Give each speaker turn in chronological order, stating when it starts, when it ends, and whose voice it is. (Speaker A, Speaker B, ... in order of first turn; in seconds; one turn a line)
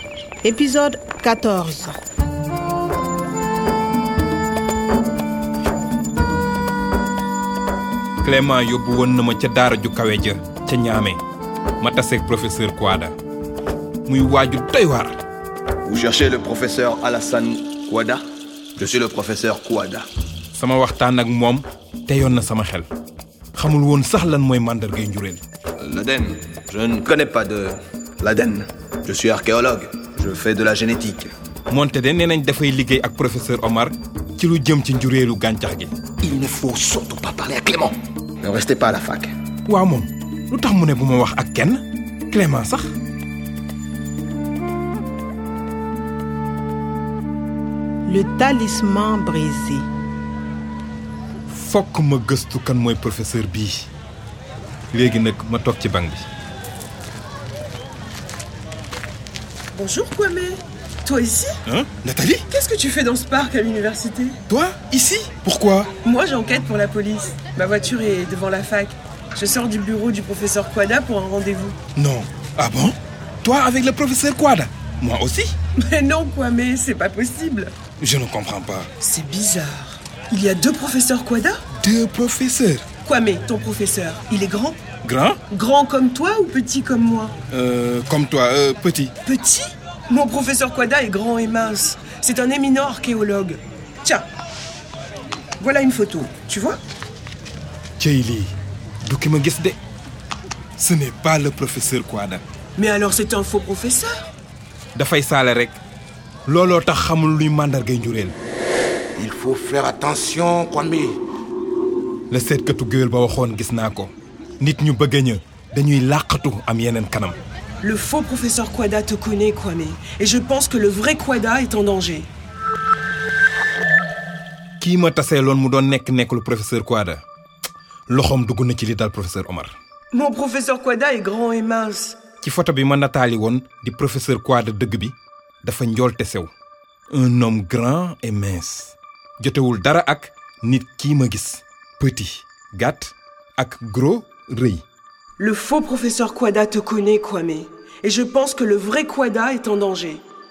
Speaker A: 0.4-1.9
Speaker B: 8.2-11.2
Speaker B: 11.8-13.1
Speaker B: 14.1-15.2
Speaker C: 15.9-18.2
Speaker C: 18.8-20.1
Speaker B: 20.5-22.9
Speaker B: 23.6-25.4
Speaker C: 25.8-31.3
Speaker B: 31.7-36.0
Speaker C: 36.2-39.3
Speaker B: 39.7-42.9
Speaker A: 48.1-49.8
Speaker B: 51.5-53.9
Speaker B: 54.9-56.2
Speaker D: 59.7-61.6
Speaker B: 61.7-62.4
Speaker D: 62.5-64.4
Speaker B: 64.5-65.9
Speaker D: 66.0-71.8
Speaker B: 72.0-75.5
Speaker D: 75.8-77.7
Speaker B: 78.0-78.9
Speaker D: 79.0-81.6
Speaker B: 81.8-82.8
Speaker D: 83.0-84.8
Speaker B: 85.0-85.4
Speaker D: 85.5-87.3
Speaker B: 87.5-89.1
Speaker D: 89.2-94.3
Speaker D: 95.6-96.8
Speaker B: 98.0-98.5
Speaker B: 99.0-99.8
Speaker B: 100.8-102.4
Speaker D: 102.8-104.3
Speaker B: 104.9-105.8
Speaker B: 106.5-108.3
Speaker E: 109.2-111.2
Speaker B: 112.3-117.4
Speaker D: 117.8-122.3
Speaker B: 124.8-127.2
Speaker B: 128.1-129.8
Speaker D: 130.1-132.2
Speaker B: 132.4-136.5
Speaker B: 137.1-144.8
Speaker D: 145.4-150.2